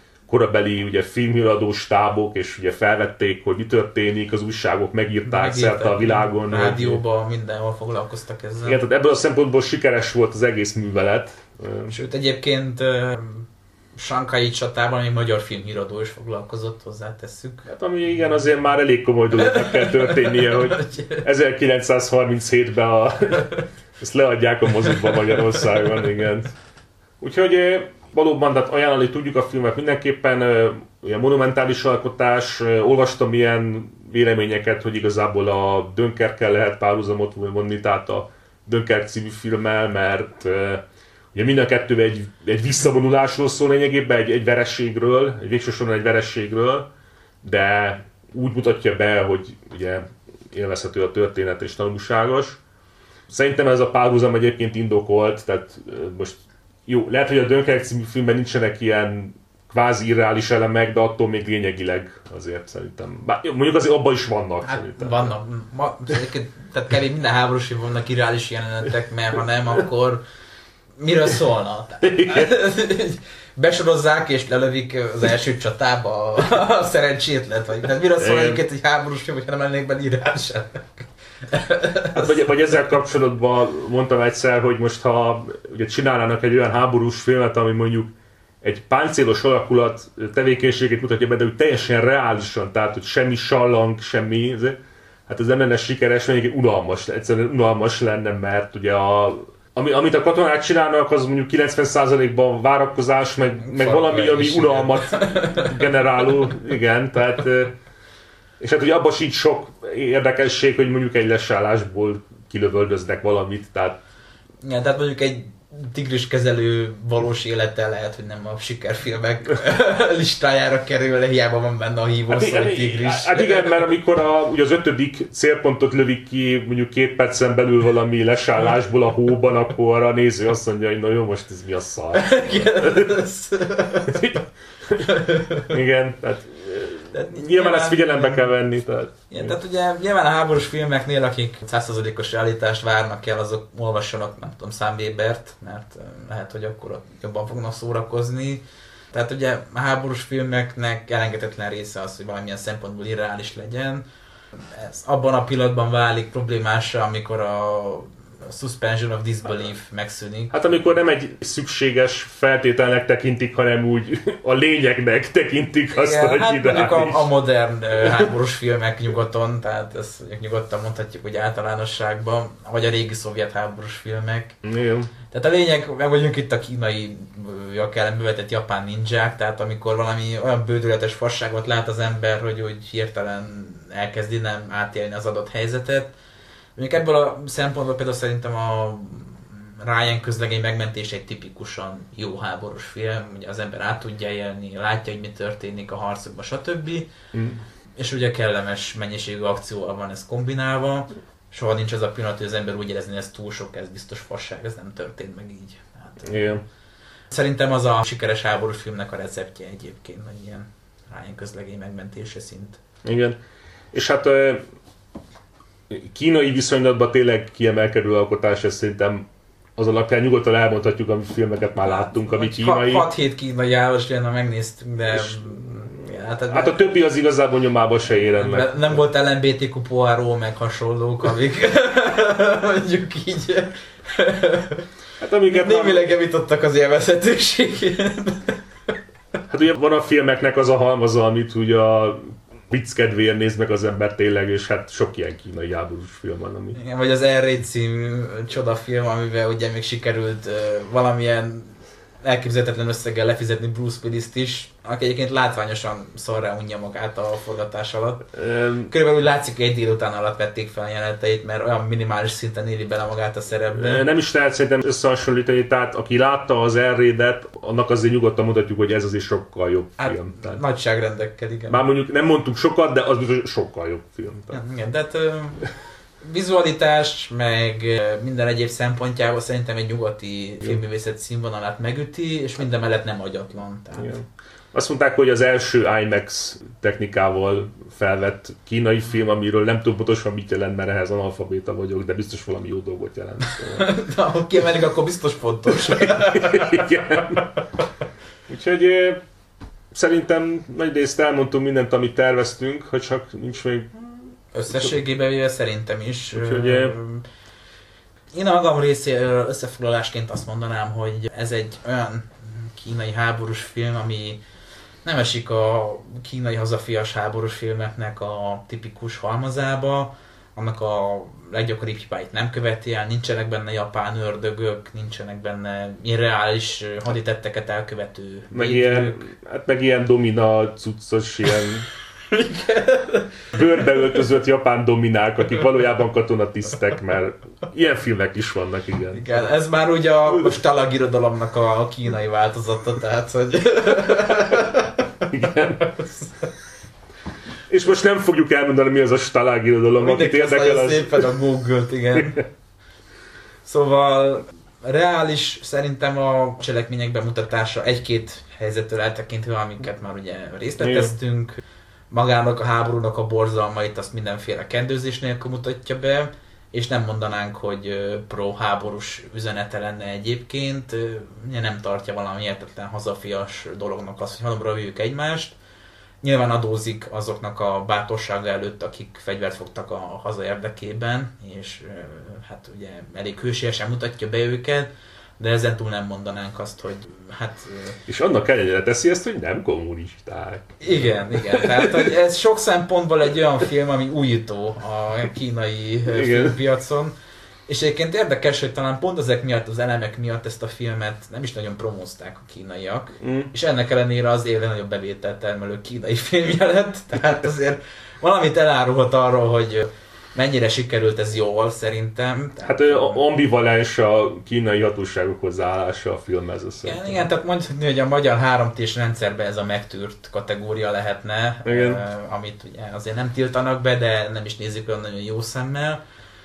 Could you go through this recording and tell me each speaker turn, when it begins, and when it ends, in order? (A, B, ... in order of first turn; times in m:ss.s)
0:00.3-0:07.0 A
0:05.2-0:08.8 B
0:08.6-0:11.9 A
0:11.9-0:17.7 B
0:17.6-0:26.5 A
0:19.3-0:21.2 B
0:24.8-0:25.9 B
0:27.2-0:40.8 A
0:41.3-0:46.9 A
0:47.4-0:52.6 A
0:53.3-1:05.3 A
1:04.6-1:10.2 B
1:11.0-1:22.4 B
1:12.0-1:12.5 A
1:18.2-1:18.6 A
1:22.1-1:47.8 A
1:43.6-1:46.1 B
1:48.6-1:54.0 A
1:54.6-2:03.9 B
2:02.3-2:13.2 A
2:12.1-2:14.4 B
2:14.0-2:15.1 A
2:15.0-2:15.8 B
2:15.6-2:19.5 A
2:17.1-2:18.5 B
2:19.3-2:40.5 B
2:40.5-2:47.3 A
2:45.9-2:54.6 B
2:48.0-2:48.3 A
2:54.6-2:55.1 A
2:55.3-3:06.1 B
3:06.8-3:17.1 B
3:17.3-3:17.6 A
3:18.0-3:26.5 B
3:26.2-3:26.6 A
3:27.3-3:32.8 B
3:33.0-3:33.4 A
3:33.9-3:34.6 A
3:35.9-3:43.1 A
3:41.8-3:46.9 B
3:45.1-3:49.0 A
3:48.1-3:54.8 B
3:55.2-3:56.1 A
3:55.4-3:58.9 B
3:59.5-4:06.8 A
4:06.7-4:18.3 B
4:18.3-4:18.9 A
4:18.9-4:24.0 B
4:23.7-4:30.6 A
4:30.0-4:31.8 B
4:31.7-4:34.6 A
4:34.5-4:35.7 B
4:36.2-4:44.1 B
4:44.0-4:53.9 A
4:53.6-4:57.6 B
4:55.9-4:57.6 A
4:58.5-4:59.2 A
4:59.9-5:03.9 A
5:04.5-5:07.2 B
5:06.3-5:06.9 A
5:08.3-5:14.4 B
5:15.0-5:29.2 B
5:28.5-5:31.9 A
5:32.3-5:34.0 B
5:33.5-5:39.4 A
5:39.1-5:46.3 B
5:45.2-5:46.1 A
5:47.7-5:51.3 A
5:50.0-5:52.4 B
5:53.6-6:15.6 B
6:00.8-6:01.1 A
6:16.2-6:28.0 B
6:28.1-6:32.1 A
6:30.8-6:37.1 B
6:36.1-6:36.6 A
6:37.7-6:53.2 B
6:43.2-6:43.5 A
6:52.6-6:57.2 A
6:56.8-7:06.0 B
7:01.6-7:02.0 A